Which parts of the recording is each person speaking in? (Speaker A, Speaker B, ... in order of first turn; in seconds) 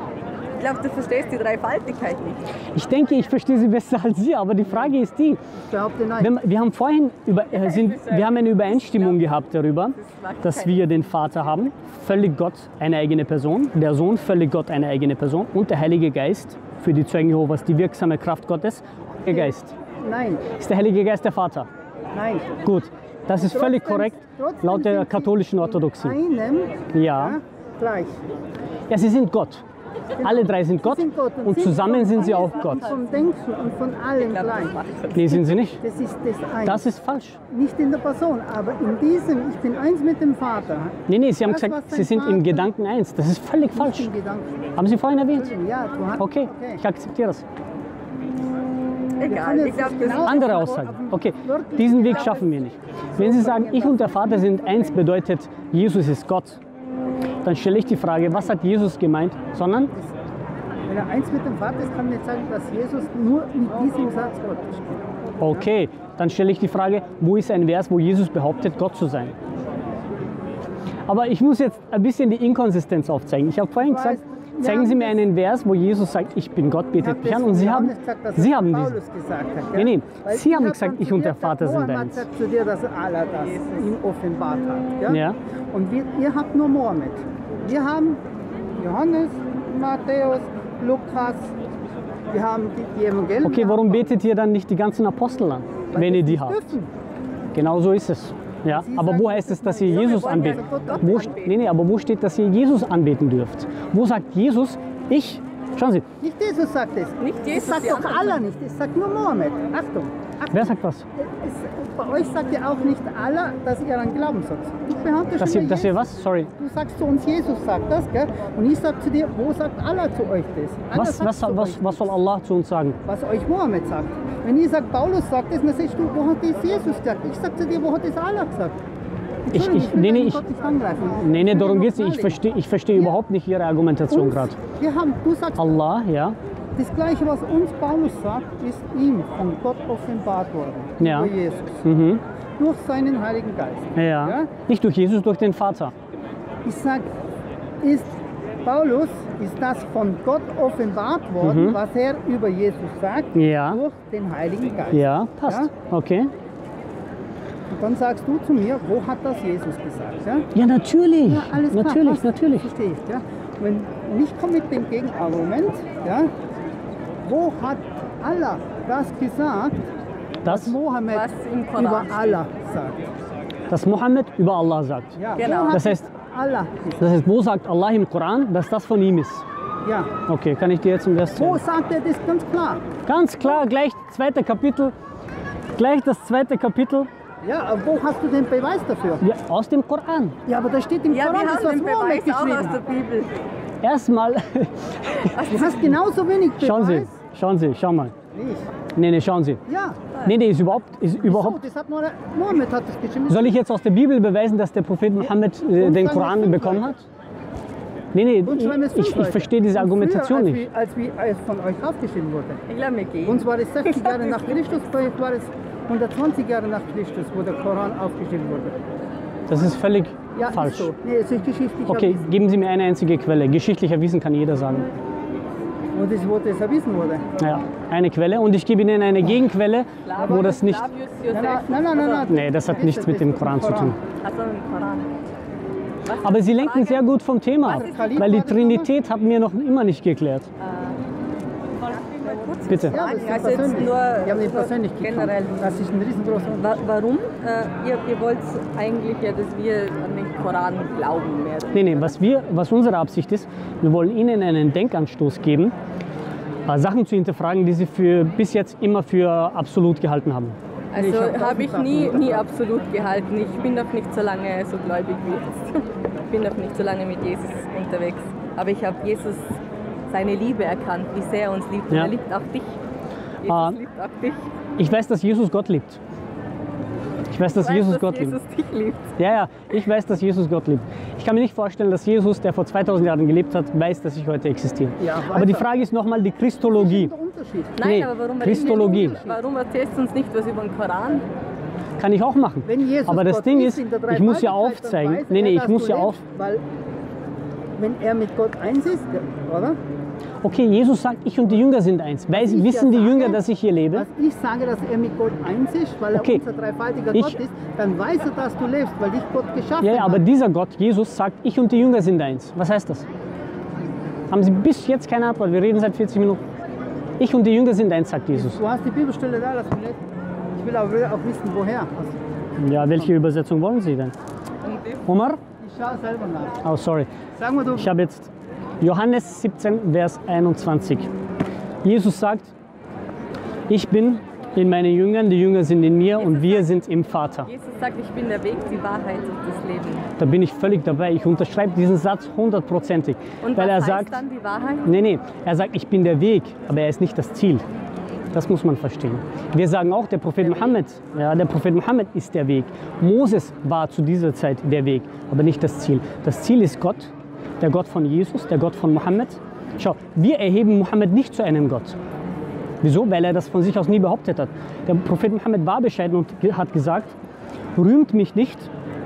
Speaker A: 0.5-2.4, 7.5-9.3, 9.9-10.9, 32.8-33.1, 34.2-35.4, 49.2-50.8, 83.5-83.9, 99.9-101.6, 107.2-108.4, 171.1-172.4, 175.4-175.9, 191.1-193.3, 195.4-195.9, 212.7-214.6, 230.1-232.3, 234.2-235.1, 236.1-237.1, 237.7-238.3, 240.6-241.0, 241.8-245.7, 246.6-252.1, 260.9-272.8, 273.4-274.5, 277.5-279.1, 287.8-291.3, 336.2-336.7, 337.4-340.1, 343.4-344.9
Speaker B: 2.7-5.4, 6.2-19.8, 20.6-21.7, 22.6-26.2, 26.9-27.4, 28.9-29.6, 30.2-32.9, 35.1-35.8, 36.6-37.4, 41.1-44.1, 44.8-45.5, 46.2-47.5, 50.1-56.6, 57.4-59.9, 65.4-69.3, 71.1-79.0, 79.8-82.3, 85.1-85.4, 93.4-96.7, 97.5-106.0, 110.5-111.1, 115.4-116.5, 120.9-123.0, 129.5-130.4, 131.1-134.6, 135.6-136.4, 141.0-141.3, 141.8-142.2, 144.0-145.9, 151.4-151.8, 153.3-153.8, 154.9-156.3, 160.5-162.7, 170.4-170.8, 173.7-175.2, 175.7-176.1, 177.0-179.4, 180.3-181.6, 183.1-184.9, 185.8-187.1, 189.2-190.4, 193.8-195.6, 196.6-198.1, 199.0-199.6, 200.2-201.6, 203.3-207.1, 208.1-210.7, 219.5-220.9, 221.9-224.9, 227.4-230.9, 232.3-234.0, 236.2-240.5, 242.7-243.0, 251.7-255.8, 256.7-260.6, 273.4-273.8, 274.8-276.0, 277.3-278.4, 279.2-287.1, 287.8-289.2, 292.0-296.2, 300.4-304.1, 306.1-306.4, 307.1-307.4, 309.8-313.1, 314.3-316.4, 317.2-318.6, 322.6-324.1, 325.1-325.4, 326.6-327.1, 327.7-331.1, 331.8-332.5, 333.7-337.5, 340.2-344.2, 344.8-347.6, 348.3-362.0, 362.8-367.2, 367.8-368.7
Speaker C: 5.6-6.4, 19.3-20.5, 22.1-22.6, 23.3-28.2, 30.2-36.9, 37.4-42.7, 43.7-46.8, 49.2-52.6, 53.1-55.0, 60.9-65.7, 73.8-75.3, 77.0-88.2, 88.8-91.5, 92.3-94.0, 95.9-96.9, 98.7-101.1, 106.2-122.2, 123.0-128.8, 129.5-133.2, 134.1-135.7, 136.8-141.9, 142.6-144.5, 146.7-147.1, 147.8-155.7, 157.7-160.5, 161.2-166.3, 167.3-169.8, 170.4-173.1, 175.2-177.1, 179.8-180.1, 181.4-182.8, 187.4-189.2, 190.4-192.9, 195.5-197.2, 198.3-198.7, 199.7-200.1, 201.0-203.6, 205.2-206.9, 208.4-212.6, 213.2-218.8, 220.3-222.3, 225.9-227.5, 230.2-230.6, 231.3-234.0, 237.6-238.9, 242.9-246.7, 261.0-262.5, 285.0-285.7, 286.6-287.9, 288.4-289.4, 292.6-296.6, 297.8-299.8, 302.3-310.2, 318.3-320.0, 320.6-322.2, 322.8-323.1, 325.6-326.6, 327.4-328.0